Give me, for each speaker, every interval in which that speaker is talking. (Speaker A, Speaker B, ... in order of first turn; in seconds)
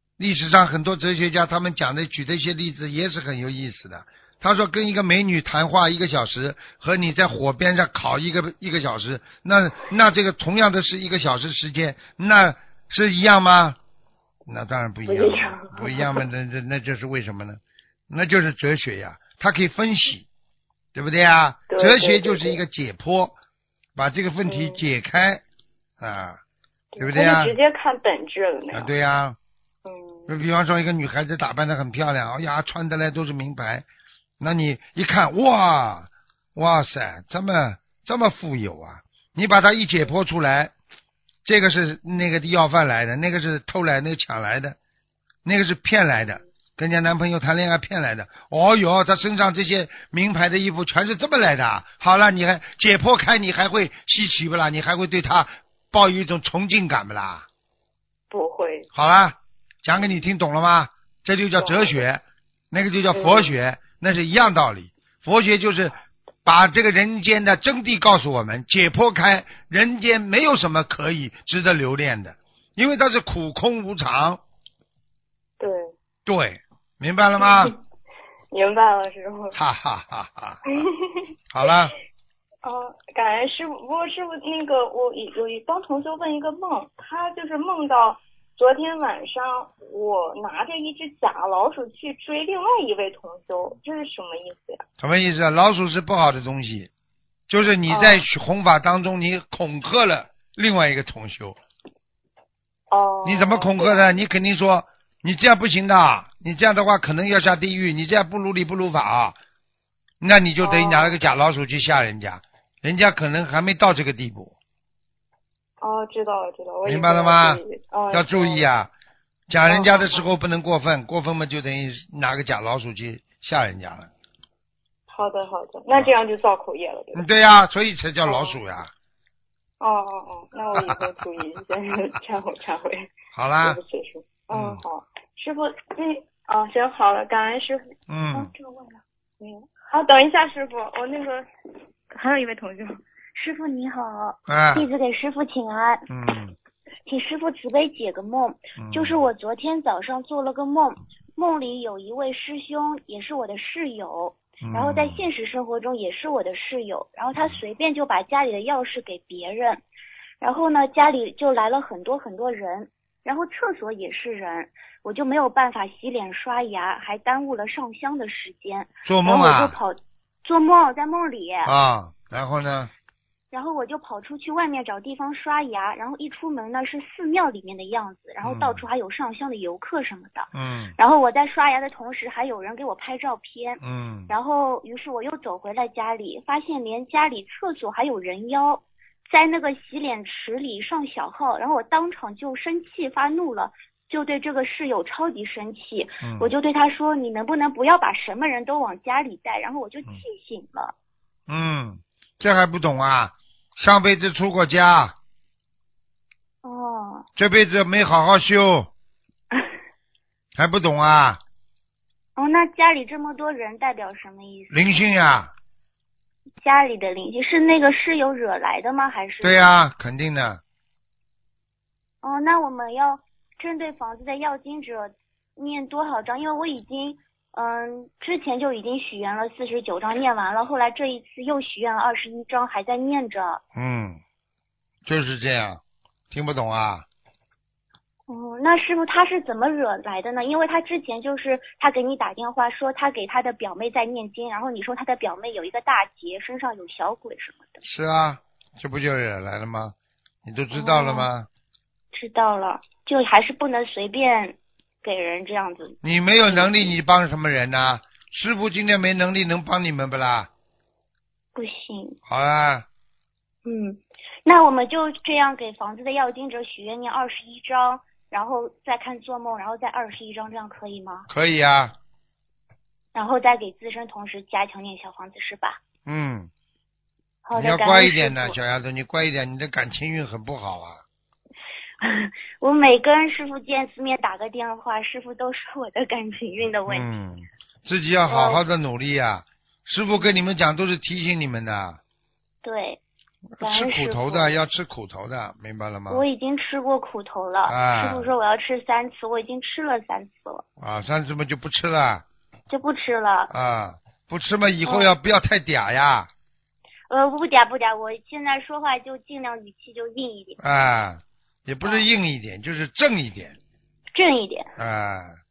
Speaker A: 0.2-13.8, 14.4-20.3, 20.9-23.3, 23.9-25.4, 26.0-26.4, 27.0-27.5, 28.7-29.4, 30.3-33.9, 34.4-40.7, 41.4-44.8, 45.4-57.5, 58.9-74.4, 76.2-77.7, 79.5-80.8, 81.5-81.9, 95.0-96.9, 97.5-101.6, 103.2-109.3, 110.2-114.5, 116.8-118.9, 119.5-124.1, 127.1-128.9, 133.3-133.8, 134.5-134.8, 138.1-138.5, 144.5-144.9, 146.1-146.6, 148.8-149.3, 154.6-155.2, 169.0-169.8, 171.6-172.9, 178.4-178.8, 180.5-180.9, 183.8-184.3, 196.2-196.5, 201.5-205.1, 207.3-208.9, 210.5-211.4, 214.7-215.5, 219.4-220.6, 233.7-234.2, 235.0-237.1, 247.8-249.9, 250.4-251.5, 256.0-260.5, 262.3-262.9, 271.3-271.9, 276.1-276.5, 277.5-281.0, 286.9-292.0, 293.6-296.2, 297.7-298.3, 300.8-302.2, 303.5-306.3, 310.6-313.6, 314.8-315.4
Speaker B: 15.1-16.2, 21.7-22.6, 24.4-24.8, 26.9-28.9, 29.8-30.4, 58.3-58.9, 61.6-61.9, 63.1-63.5, 75.6-75.9, 77.4-77.7, 78.5-79.6, 80.7-81.3, 82.6-94.8, 97.9-98.2, 102.9-104.2, 110.6-111.2, 115.8-118.6, 119.7-120.2, 125.1-127.2, 128.2-128.6, 129.8-137.9, 139.4-141.5, 142.1-143.0
Speaker C: 138.5-139.0, 143.3-146.0, 147.1-159.8, 160.4-171.7, 173.5-200.9, 206.6-207.2, 212.3-215.0, 216.6-219.7, 222.2-233.6, 238.3-247.8, 250.7-251.3, 252.1-256.9, 261.5-262.2, 263.6-271.3, 273.1-275.8, 277.4-278.6, 282.0-287.1, 288.3-288.6, 292.6-293.0, 293.6-294.6, 296.1-300.6, 302.7-303.5, 304.8-305.1, 307.1-310.6, 314.1-314.7